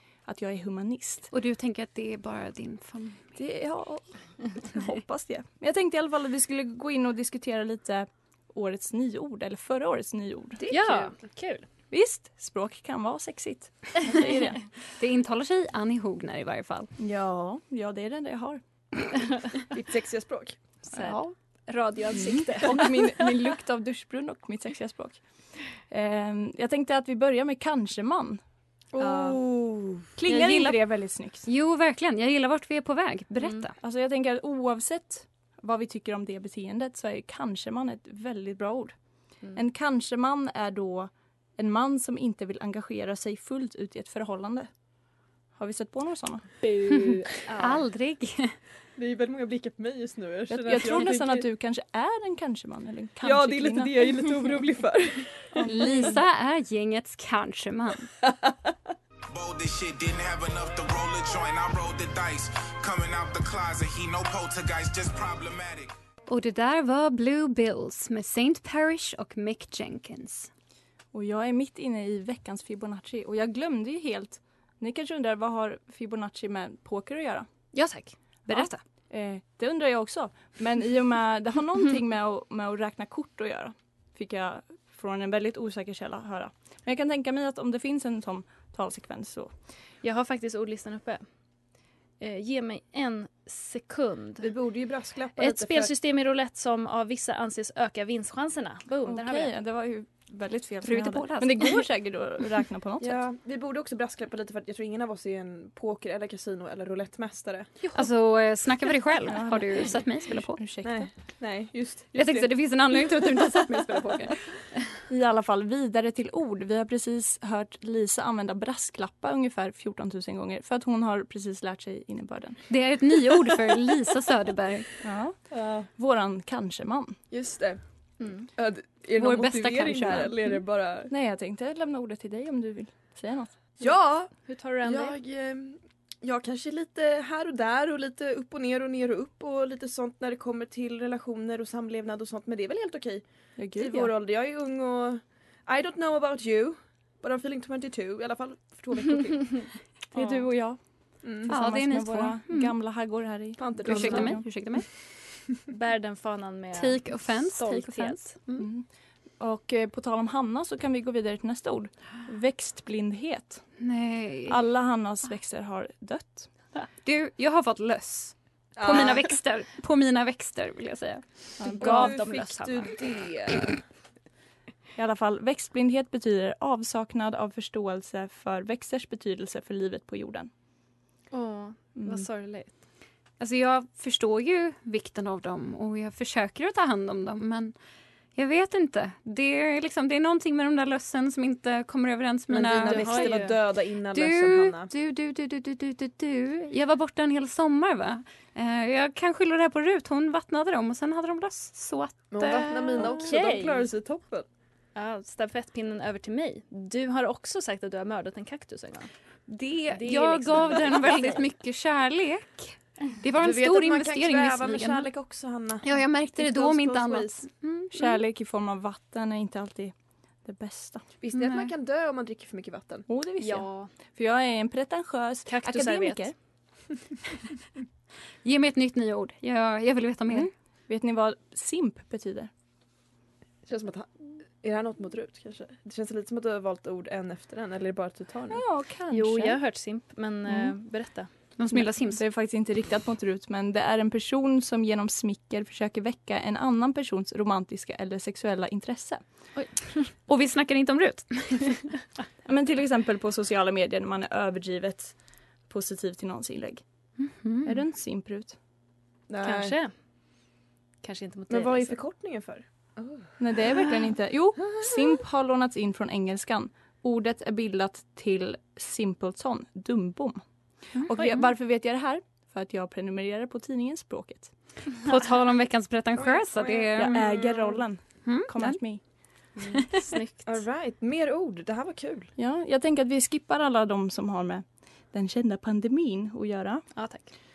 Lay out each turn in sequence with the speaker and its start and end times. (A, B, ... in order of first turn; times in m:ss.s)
0:00.2-0:01.3 A
0:01.3-0:03.2 B
0:03.4-0:10.6 A
0:10.6-0:11.1 C
0:10.7-0:11.7 D
0:11.9-0:14.6 A
0:15.0-0:16.9 B
0:17.0-0:18.6 A
0:19.7-0:20.6 C
0:20.8-0:23.1 D
0:20.9-0:21.3 A
0:22.1-0:25.2 A
0:25.8-0:28.4 A
0:28.9-0:30.1 C
0:29.0-0:29.4 A
0:30.2-0:31.5 A
0:30.3-0:30.8 B
0:31.4-0:33.7 B
0:33.8-0:38.9 A
0:39.5-0:44.7 A
0:45.6-0:46.6 A
0:46.6-0:47.8 D
0:47.6-0:48.6 B
0:49.0-0:51.4 C
0:50.5-0:54.3 A
0:53.2-0:55.5 C
0:55.5-0:56.2 A
0:55.6-0:58.1 B
0:59.3-1:05.9 E
1:06.3-1:10.5 B
1:11.1-1:17.5 A
1:17.7-1:18.8 D
1:18.5-1:29.5 A
1:30.0-1:31.2 D
1:32.2-1:34.5 D
1:34.4-1:35.9 C
1:35.4-1:39.5 D
1:39.0-1:43.2 A
1:40.8-1:41.8 B
1:43.0-1:47.7 C
1:47.9-1:50.6 B
1:49.3-1:51.1 A
1:50.8-1:52.5 C
1:52.1-1:54.4 B
1:55.1-2:02.6 A
2:02.7-2:04.9 B
2:05.0-2:05.4 A
2:05.5-2:05.9 C
2:05.9-2:07.2 A
2:07.3-2:07.8 C
2:08.2-2:08.4 D
2:08.5-2:11.1 C
2:09.2-2:10.3 B
2:11.1-2:13.6 A
2:13.8-2:23.2 C
2:14.5-2:15.2 D
2:23.6-2:24.1 A
2:23.7-2:29.7 C
2:30.1-2:30.8 A
2:31.2-2:31.5 C
2:31.4-2:34.4 A
2:31.5-2:32.7 B
2:33.6-2:34.3 C
2:33.8-2:34.9 B
2:35.7-2:38.4 D
2:36.8-2:38.4 B
2:38.6-2:38.9 A
2:39.4-2:43.6 A
2:43.8-2:44.6 B
2:44.5-2:46.5 A
2:47.0-2:51.2 B
2:48.8-2:49.3 C
2:51.6-2:52.2 A
2:51.7-2:53.0 D
2:51.8-2:53.8 C
2:55.0-3:00.5 A
3:01.3-3:02.8 D
3:02.0-3:02.3 A
3:03.4-3:07.7 B
3:08.3-3:13.4 B
3:12.5-3:14.9 C
3:12.8-3:13.6 D
3:14.1-3:23.1 B
3:22.3-3:24.5 C
3:23.1-3:23.9 D
3:24.9-3:29.1 D
3:29.5-3:35.1 B
3:29.9-3:31.5 D
3:33.4-3:37.4 C
3:35.8-3:38.2 B
3:37.9-3:39.9 A
3:40.4-3:41.0 A
3:41.2-3:43.0 C
3:41.3-3:41.7 B
3:43.1-3:46.3 A
3:43.4-3:43.9 D
3:45.5-3:46.3 D
3:48.4-3:50.5 B
3:50.3-3:52.5 A
3:53.7-3:58.6 C
3:58.5-3:59.6 A
3:59.1-4:01.3 D
4:01.6-4:02.2 B
4:01.7-4:09.2 A
4:09.5-4:10.1 D
4:10.3-4:11.8 B
4:12.4-4:15.1 A
4:15.7-4:16.8 A
4:17.2-4:17.8 B
4:17.6-4:18.6 A
4:19.3-4:19.8 C
4:19.4-4:19.9 D
4:21.0-4:22.0 D
4:21.5-4:23.2 C
4:23.4-4:30.4 A
4:31.0-4:34.5 A
4:31.0-4:31.4 B
4:35.0-4:37.3 B
4:36.2-4:37.8 C
4:37.0-4:39.0 A
4:38.2-4:38.8 B
4:39.6-4:40.6 D
4:40.4-4:42.3 C
4:42.4-4:46.8 A
4:46.9-4:47.3 D